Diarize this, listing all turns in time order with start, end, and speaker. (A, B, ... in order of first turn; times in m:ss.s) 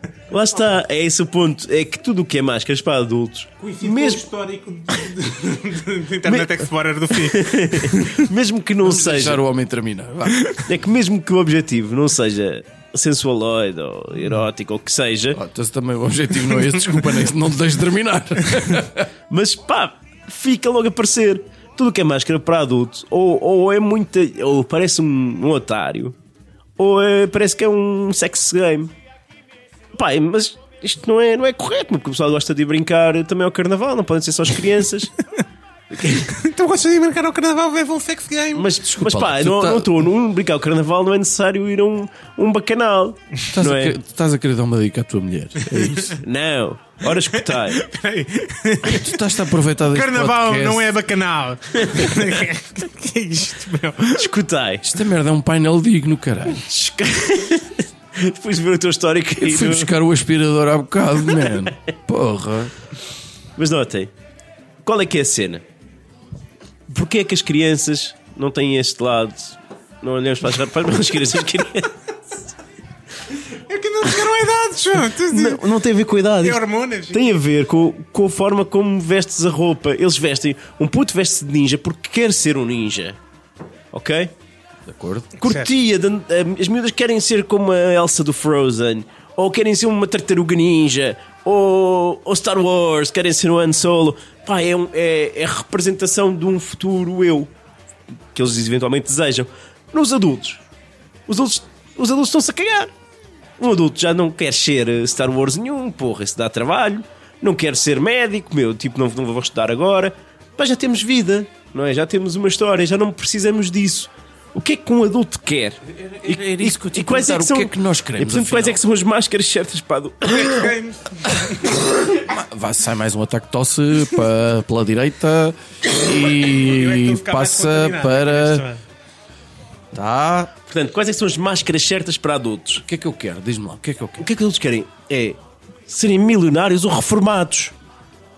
0:00.3-0:04.2 A
0:03.6-0:08.3 B
0:06.2-0:09.4 A
0:08.8-0:10.6 C
0:10.6-0:15.4 A
0:15.3-0:19.1 C
0:16.6-0:17.2 B
0:19.3-0:26.2 A
0:26.8-0:28.9 A
0:29.9-0:35.1 A
0:35.9-0:36.3 A
0:36.1-0:38.7 B
0:38.5-0:44.0 A
0:38.8-0:40.0 C
0:43.5-0:46.2 C
0:45.8-0:46.1 B
0:46.2-0:47.8 A
0:47.3-0:54.3 B
0:48.8-0:50.9 C
0:51.8-0:52.2 A
0:54.2-0:54.9 A
0:54.8-0:56.7 C
0:56.6-0:59.9 A
0:59.4-1:02.7 C
1:03.6-1:04.1 A
1:04.8-1:05.6 A
1:06.9-1:12.0 A
1:13.3-1:15.6 B
1:15.2-1:23.2 A
1:16.4-1:17.4 B
1:23.9-1:24.4 A
1:24.9-1:25.3 C
1:25.4-1:37.5 A
1:25.4-1:25.7 B
1:38.3-1:40.6 A
1:41.3-1:42.9 A
1:43.6-2:00.7 A
1:56.0-1:58.8 C
2:00.2-2:01.9 B
2:02.0-2:08.6 C
2:06.4-2:08.8 B
2:09.9-2:10.5 C
2:10.7-2:12.8 A
2:12.8-2:14.2 C
2:14.2-2:17.7 A